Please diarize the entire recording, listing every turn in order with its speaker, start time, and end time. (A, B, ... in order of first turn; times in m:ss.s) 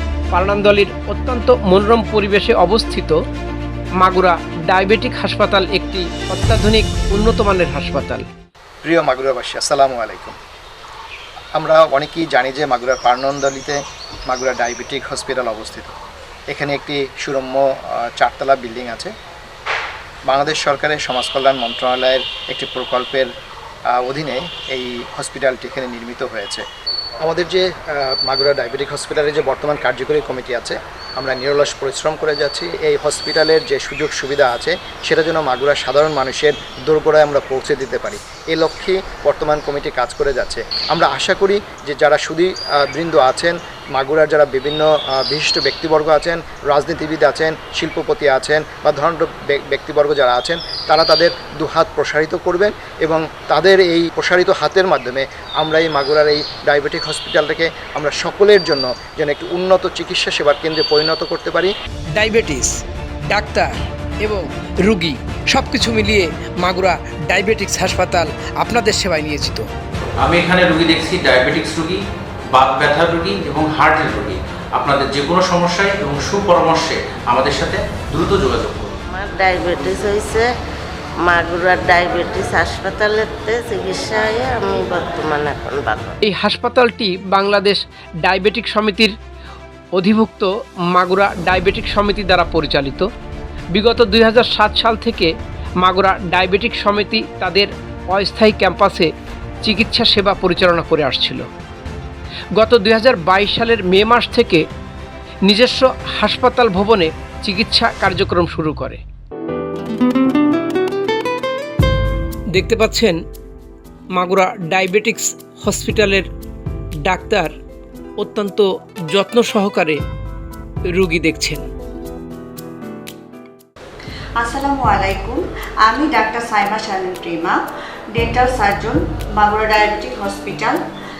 0:00.3-0:03.2 A
0:04.0-0:08.3 A
0:08.8-0:10.4 B
0:11.5-0:15.9 B
0:16.5-0:19.1 B
0:20.2-0:23.3 B
0:23.9-0:26.6 B
0:27.2-1:01.7 B
1:02.2-1:02.7 A
1:03.3-1:03.7 A
1:04.2-1:09.6 A
1:10.2-1:12.0 C
1:12.5-1:19.0 C
1:19.1-1:20.5 D
1:21.2-1:26.1 D
1:26.2-1:29.1 A
1:30.0-1:33.1 A
1:33.7-1:39.1 A
1:39.6-1:41.5 A
1:42.6-1:44.6 A
1:45.4-1:49.0 A
1:52.5-1:53.2 A
1:54.1-1:56.3 A
1:57.0-1:57.5 A
1:58.2-2:00.0 A
2:00.9-2:01.6 A
2:04.4-2:05.4 E
2:05.9-2:07.5 E
2:08.2-2:08.9 E
2:09.4-2:10.7 E